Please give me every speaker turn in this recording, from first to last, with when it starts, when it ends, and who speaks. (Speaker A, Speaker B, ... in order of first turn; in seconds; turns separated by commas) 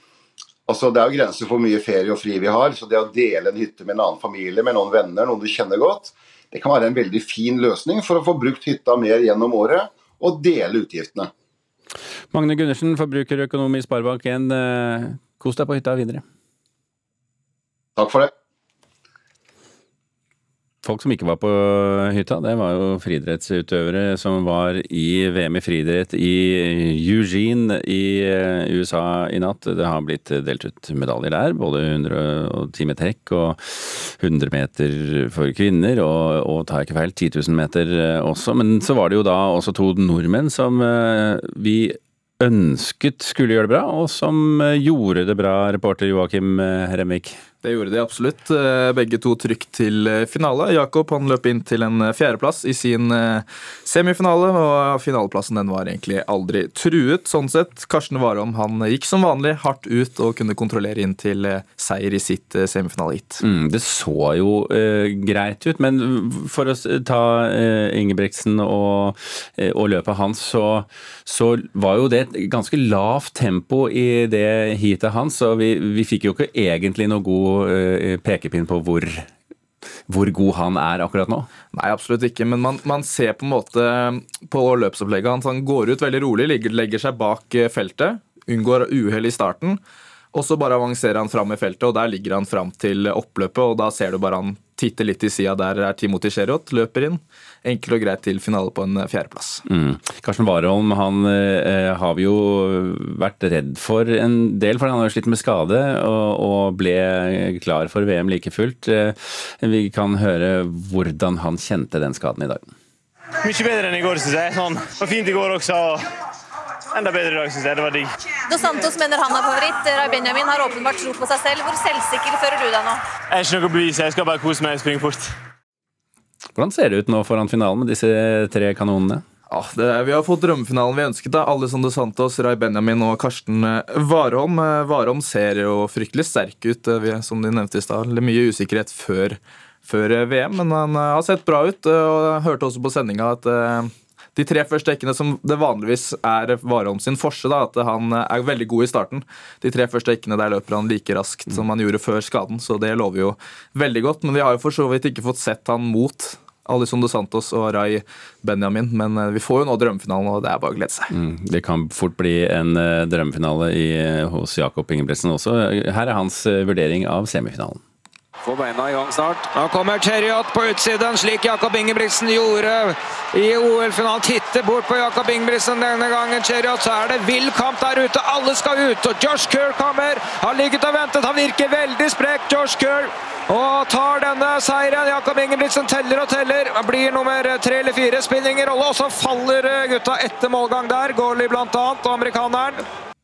Speaker A: 0.7-11.3, Speaker B: 12.3-16.2, Speaker A: 17.9-18.3, Speaker B: 20.8-47.4, Speaker C: 47.6-63.4, Speaker B: 63.4-79.3, Speaker B: 80.1-81.5, Speaker C: 81.7-89.8, Speaker C: 90.3-99.6, Speaker B: 99.7-112.7, Speaker D: 113.4-116.1, Speaker D: 116.9-118.1, Speaker E: 118.5-123.0, Speaker D: 123.3-125.3, Speaker B: 126.5-129.2, Speaker C: 129.5-161.1, Speaker B: 161.1-167.8, Speaker F: 168.4-192.8